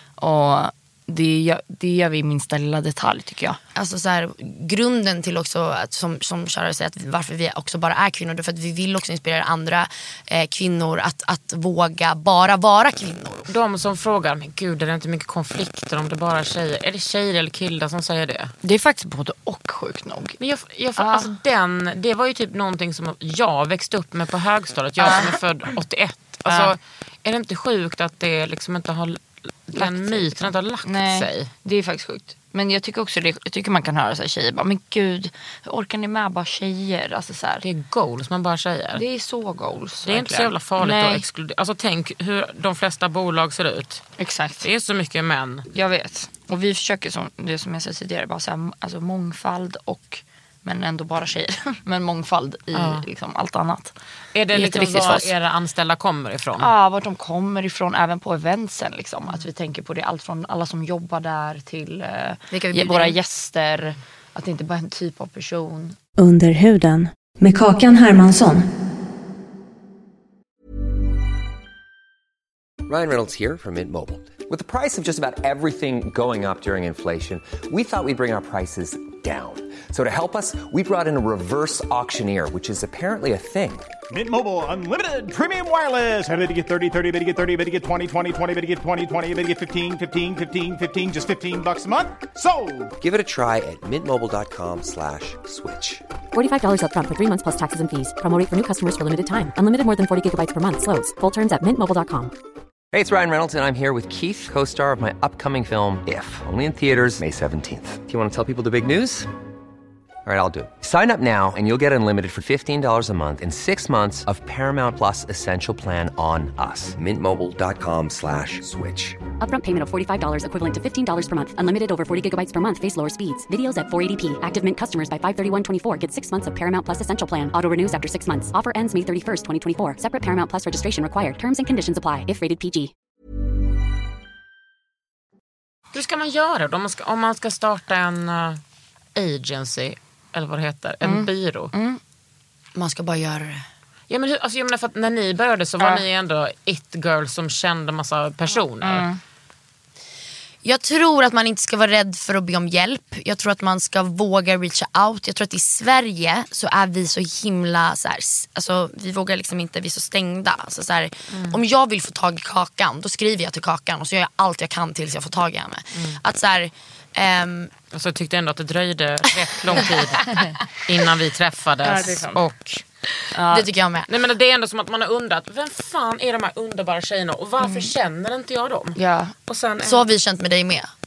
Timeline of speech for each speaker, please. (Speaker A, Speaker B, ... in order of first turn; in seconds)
Speaker A: 0.2-3.6, 18.6-20.4, 21.0-21.3, 25.0-25.4, 26.5-26.7, 29.7-37.6, 39.0-41.2, 44.2-44.7, 45.7-54.0, 54.5-55.3, 56.6-66.0, 141.0-142.0, 148.8-149.2, 171.8-172.4, 173.3-173.7, 177.6-177.9, 179.0-179.3
Speaker B: 3.8-13.5, 62.5-63.2, 142.8-143.6, 150.6-167.7, 173.5-174.1, 179.8-180.9
Speaker C: 13.5-18.5, 20.4-31.5, 37.6-39.0, 40.0-44.0, 44.6-45.7, 52.7-53.0, 54.3-56.7, 135.9-138.6, 139.2-141.7, 144.1-149.1, 161.3-161.6, 165.9-166.2, 167.9-172.8, 174.1-180.1
Speaker D: 66.2-68.7
Speaker E: 72.9-83.9, 93.0-96.0, 102.9-109.3, 110.2-119.2
Speaker F: 84.1-92.9
Speaker G: 96.3-102.3, 119.4-132.9